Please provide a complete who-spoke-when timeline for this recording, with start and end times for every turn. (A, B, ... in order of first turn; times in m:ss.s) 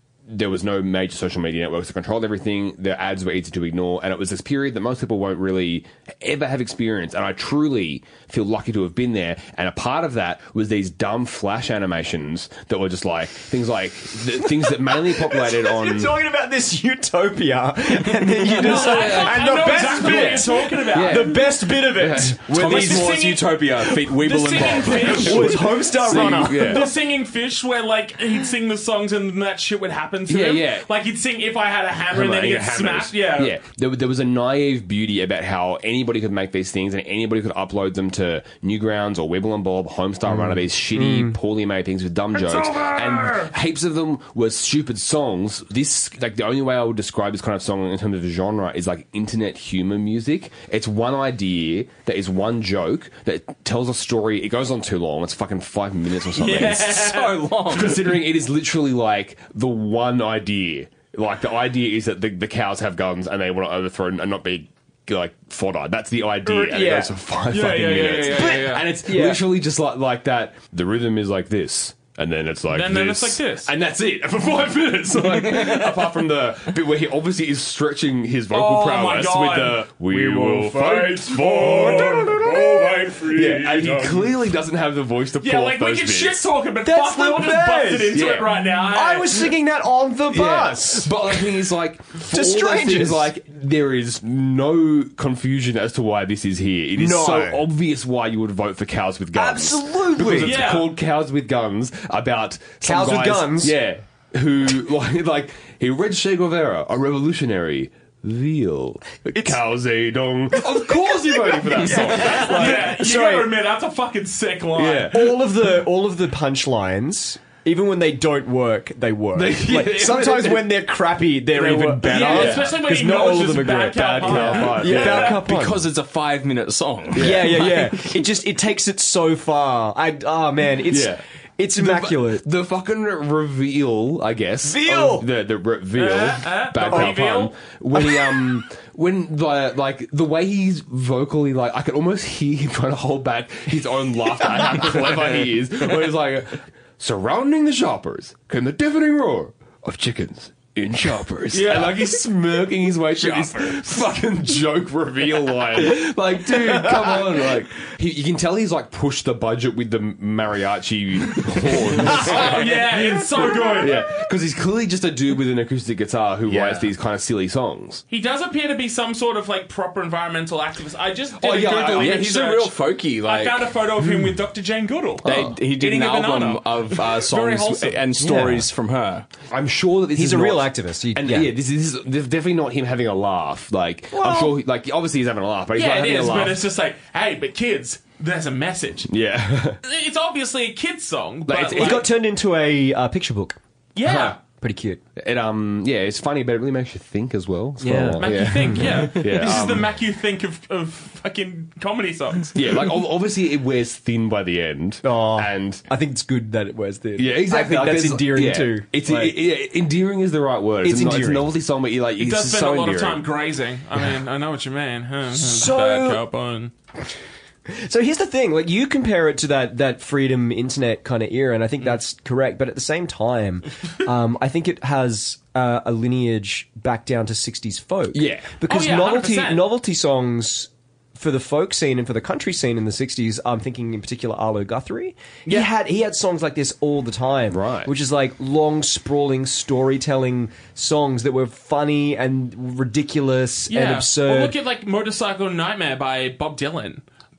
0:00.3-0:16.2 A
0:14.7-0:23.2 B
0:18.6-0:21.6 C
0:18.8-0:23.2 A
0:22.5-0:25.6 D
0:22.6-0:23.5 C
0:24.1-0:33.6 C
0:24.9-0:26.9 B
0:25.9-0:26.9 A
0:30.3-0:30.9 A
0:32.1-1:26.5 A
0:40.3-0:41.4 B
0:42.3-0:43.5 C
0:56.4-0:57.4 C
0:56.4-0:57.9 D
1:06.5-1:08.9 C
1:08.3-1:09.4 B
1:12.7-1:13.7 C
1:18.5-1:19.9 C
1:20.1-1:23.3 B
1:20.6-1:24.2 C
1:25.4-1:29.5 C
1:26.8-1:31.4 B
1:28.1-1:28.5 A
1:30.3-1:52.9 A
1:32.3-1:33.3 B
1:37.0-1:37.7 B
1:39.3-1:40.6 B
1:40.3-1:40.9 C
1:42.8-1:43.8 B
1:51.6-1:53.5 B
1:51.8-1:55.2 C
1:54.8-1:55.4 A
1:55.1-2:05.8 B
1:59.3-2:00.7 A
2:01.7-2:02.8 A
2:02.0-2:05.2 C
2:03.9-2:05.4 A
2:05.0-2:07.9 D
2:07.1-2:07.9 A
2:07.2-2:12.4 B
2:10.9-2:11.2 A
2:11.8-2:48.0 A
2:14.6-2:15.3 B
2:16.0-2:17.5 C
2:16.9-2:17.2 B
2:18.0-2:18.4 B
2:24.6-2:25.3 B
2:31.7-2:31.9 C
2:42.0-2:44.1 C
2:46.5-2:46.9 D
2:48.1-2:58.0 C
2:51.4-2:52.2 A
2:51.9-2:53.7 D
2:54.0-2:54.3 B
2:55.2-2:55.6 A
2:55.2-2:59.3 D
2:58.2-2:58.7 B
2:59.5-3:06.6 A
3:00.2-3:01.5 B
3:04.2-3:04.5 B
3:05.8-3:09.1 C
3:09.1-3:09.8 A
3:09.8-3:12.1 C
3:11.5-3:12.0 A
3:11.7-3:13.6 B
3:14.0-3:14.4 C
3:14.0-3:14.4 A
3:14.4-3:15.0 B
3:15.2-3:19.9 A
3:17.8-3:19.1 B
3:18.2-3:22.8 C
3:22.6-3:25.8 A
3:25.0-3:29.4 B
3:27.2-3:33.2 A
3:30.8-3:31.5 B
3:32.2-3:36.7 C
3:35.3-3:36.2 B
3:37.7-4:04.6 B
3:48.1-3:48.5 A
3:48.7-3:49.7 C
3:57.5-3:57.9 A
4:03.7-4:07.0 C